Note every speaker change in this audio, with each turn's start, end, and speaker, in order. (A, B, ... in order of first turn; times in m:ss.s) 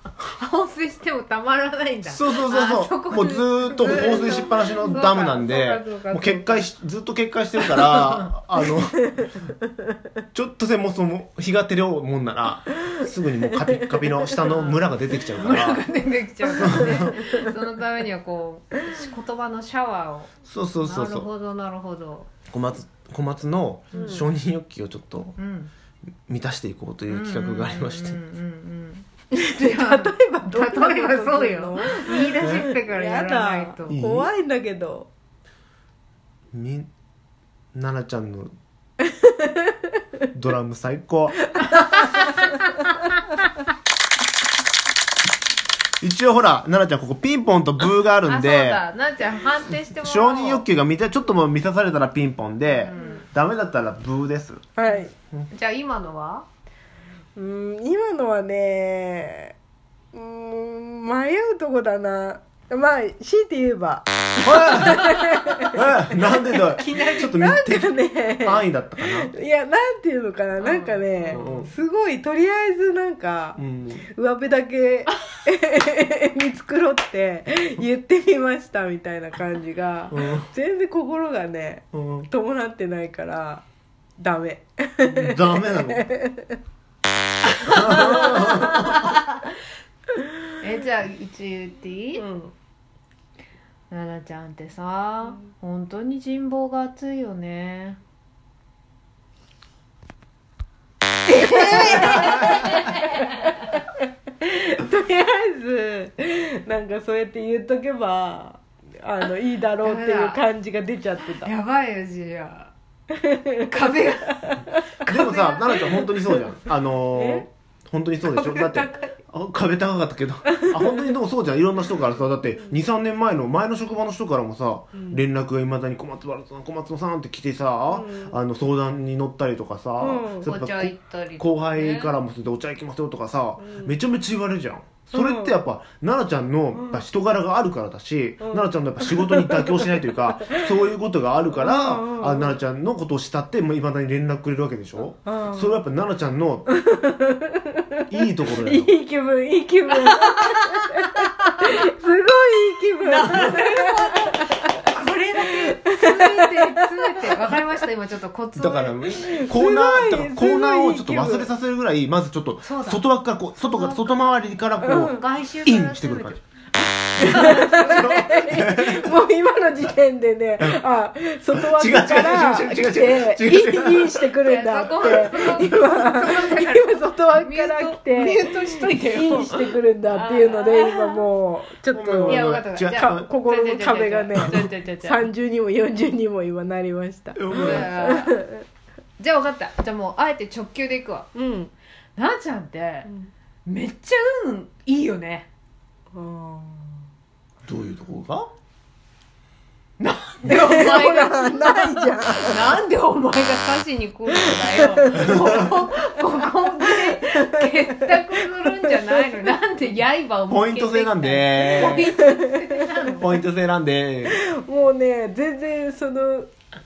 0:00.3-0:06.7 A
0:02.1-0:09.3 B
0:07.6-0:08.3 A
0:10.3-0:15.8 B
0:14.4-0:22.3 A
0:16.6-0:17.3 B
0:20.5-0:21.3 B
0:22.5-0:25.3 B
0:23.9-0:24.2 A
0:23.9-0:24.2 C
0:25.4-0:25.7 A
0:26.3-0:28.2 B
0:27.1-0:34.0 A
0:29.3-0:35.1 C
0:32.4-0:32.6 B
0:33.9-0:34.3 B
0:36.5-0:36.9 B
0:37.7-0:38.5 B
0:39.1-0:39.7 C
0:40.3-0:41.4 B
0:41.6-0:42.2 C
0:41.8-0:42.6 A
0:46.0-0:48.8 B
0:48.2-0:50.6 A
0:50.0-0:54.6 B
0:52.8-0:53.2 A
0:54.8-0:55.1 C
0:54.9-0:56.4 A
0:57.4-0:59.6 C
1:00.1-1:05.9 C
1:04.4-1:05.1 B
1:04.7-1:05.3 A
1:05.7-1:09.3 B
1:06.8-1:07.3 A
1:07.2-1:23.6 C
1:10.6-1:11.7 A
1:11.3-1:11.7 B
1:13.6-1:14.1 B
1:20.1-1:20.5 B
1:21.9-1:22.3 B
1:24.2-1:26.6 C
1:25.0-1:26.1 B
1:27.6-1:29.3 A
1:27.7-1:29.0 B
1:28.1-1:28.5 C
1:30.6-1:32.2 A
1:32.1-1:32.5 C
1:33.9-1:38.0 A
1:41.3-1:43.6 A
1:41.3-1:43.8 C
1:44.4-1:51.5 C
1:49.8-1:50.4 A
1:51.2-1:52.7 A
1:53.1-1:53.7 C
1:53.6-1:55.8 A
1:54.3-1:54.8 C
1:55.1-2:26.7 B
1:57.1-1:57.4 C
1:58.2-1:59.1 A
2:00.5-2:01.1 C
2:04.9-2:05.2 C
2:07.9-2:08.4 C
2:10.0-2:10.5 C
2:10.4-2:12.2 A
2:13.6-2:14.0 C
2:15.1-2:15.6 C
2:16.8-2:17.0 C
2:18.4-2:19.6 C
2:21.6-2:22.6 C
2:25.2-2:25.8 C
2:26.7-2:27.8 C
2:28.1-2:28.9 B
2:28.6-2:34.6 C
2:30.1-2:31.8 A
2:33.0-2:39.2 A
2:35.5-2:37.6 C
2:38.5-2:46.4 B
2:39.2-2:41.5 C
2:42.6-2:43.0 A
2:43.7-2:44.2 A
2:44.8-2:45.1 C
2:44.8-2:48.2 A
2:47.2-2:49.2 B
2:47.2-3:08.6 C
2:51.5-2:54.3 B
2:54.4-3:01.2 A
2:55.0-2:55.7 B
3:01.9-3:03.3 B
3:02.2-3:05.3 A
3:07.4-3:08.1 B
3:07.5-3:08.4 A
3:09.2-3:11.3 A
3:11.4-3:11.7 C
3:12.2-3:13.1 A
3:13.0-3:13.3 C
3:13.6-3:15.5 A
3:16.1-3:17.0 C
3:17.6-3:18.5 B
3:20.0-3:33.4 A
3:20.5-3:22.8 C
3:24.5-3:25.4 C
3:25.3-3:25.5 B
3:27.0-3:29.1 C
3:30.5-3:32.2 B
3:31.8-3:32.5 C
3:33.2-3:34.4 B
3:34.3-3:36.5 C